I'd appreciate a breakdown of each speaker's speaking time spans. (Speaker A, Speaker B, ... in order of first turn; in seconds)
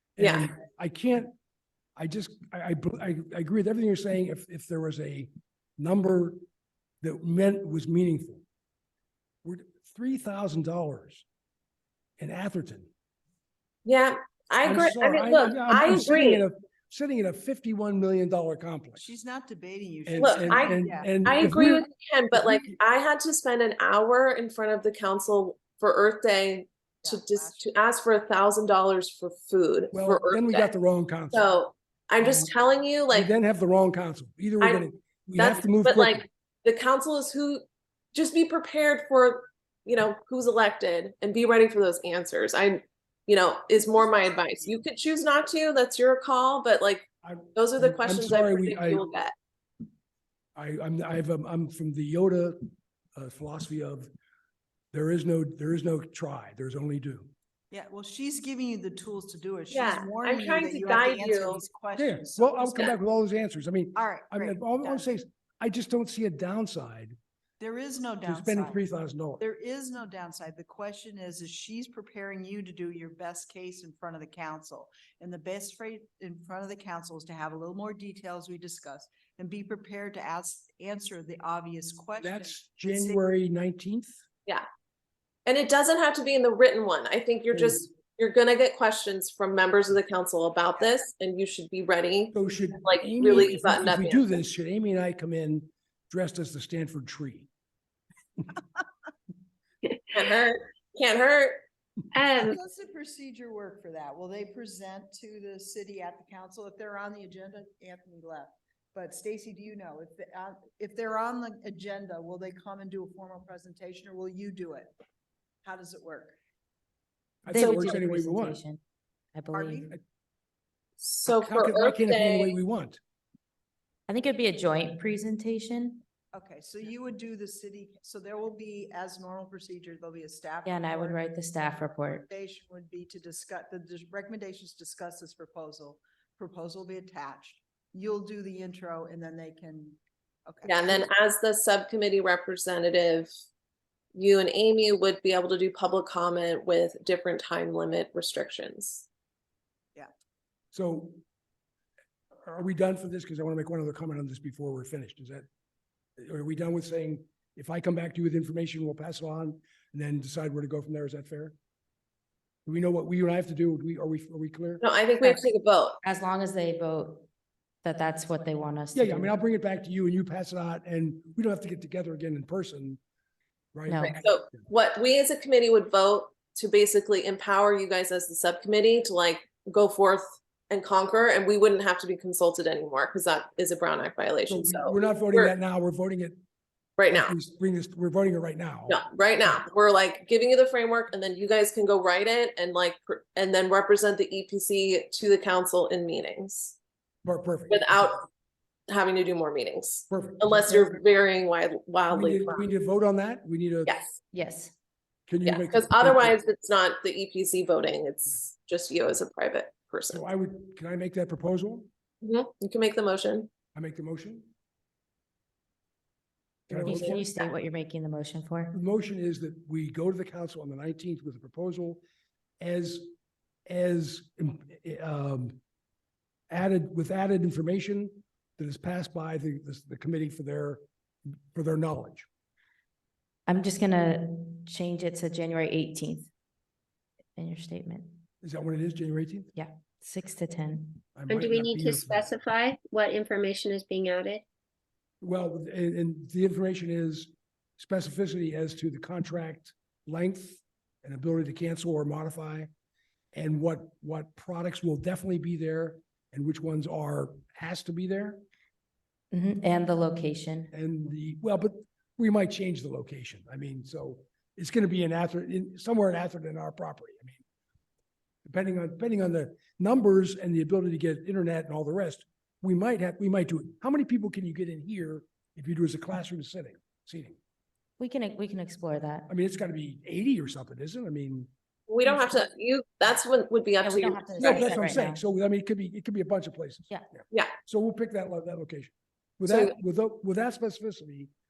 Speaker A: 0.2-1.3, 2.0-6.4, 7.0-8.4, 9.4-11.2, 12.2-12.9, 14.6-19.1, 20.0-22.8, 29.9-31.5, 32.2-32.5, 33.1-36.3, 47.2-49.0, 50.5-54.1, 54.9-57.3, 62.0-67.2, 68.2-69.4, 82.2-84.2, 92.3-97.5, 117.4-118.6, 121.2-123.0, 150.7-151.2, 152.4-155.4, 156.2-161.5, 162.7-164.8, 168.9-173.0, 173.7-174.3, 184.5-186.4, 187.1-189.6, 197.2-198.2, 200.1-200.9, 202.1-203.9, 205.3-206.4, 210.1-211.9, 213.7-214.5, 216.7-217.2, 218.7-222.0, 222.6-223.1, 223.7-225.6, 226.5-230.8, 231.5-232.3, 238.4-239.5, 241.1-242.3, 245.2-252.7, 253.3-258.4, 260.7-267.4, 268.4-277.4, 279.3-281.5, 284.4-291.3
Speaker B: 0.2-0.5, 13.8-16.4, 20.1-30.7, 31.3-33.3, 35.4-37.6, 38.1-49.3, 59.7-61.6, 85.5-94.4, 100.1-101.6, 117.5-118.0, 121.0-122.6, 140.6-143.3, 144.1-149.1, 164.8-166.0, 174.0-185.5, 187.0-187.3, 188.9-196.8, 197.7-198.2, 198.9-202.7, 203.8-204.2, 205.4-210.2, 212.2-213.5, 216.7-217.5, 281.9-285.0, 289.4-289.7
Speaker C: 18.9-21.1, 27.0-27.7, 43.8-44.8, 57.7-62.9, 63.9-65.1, 67.6-68.8, 69.4-83.2, 102.4-114.9, 115.6-116.3, 119.5-119.9, 126.3-131.3, 132.3-141.1
Speaker D: 102.1-102.5, 241.3-244.4
Speaker E: 117.5-118.8, 119.3-119.9, 124.1-126.0, 130.6-132.3, 165.2-165.4, 166.0-167.3, 167.8-169.3, 173.9-174.2, 204.3-204.7, 216.7-218.7, 233.5-236.3, 237.3-238.2, 239.5-241.2, 259.3-260.7, 278.0-279.3, 283.8-285.2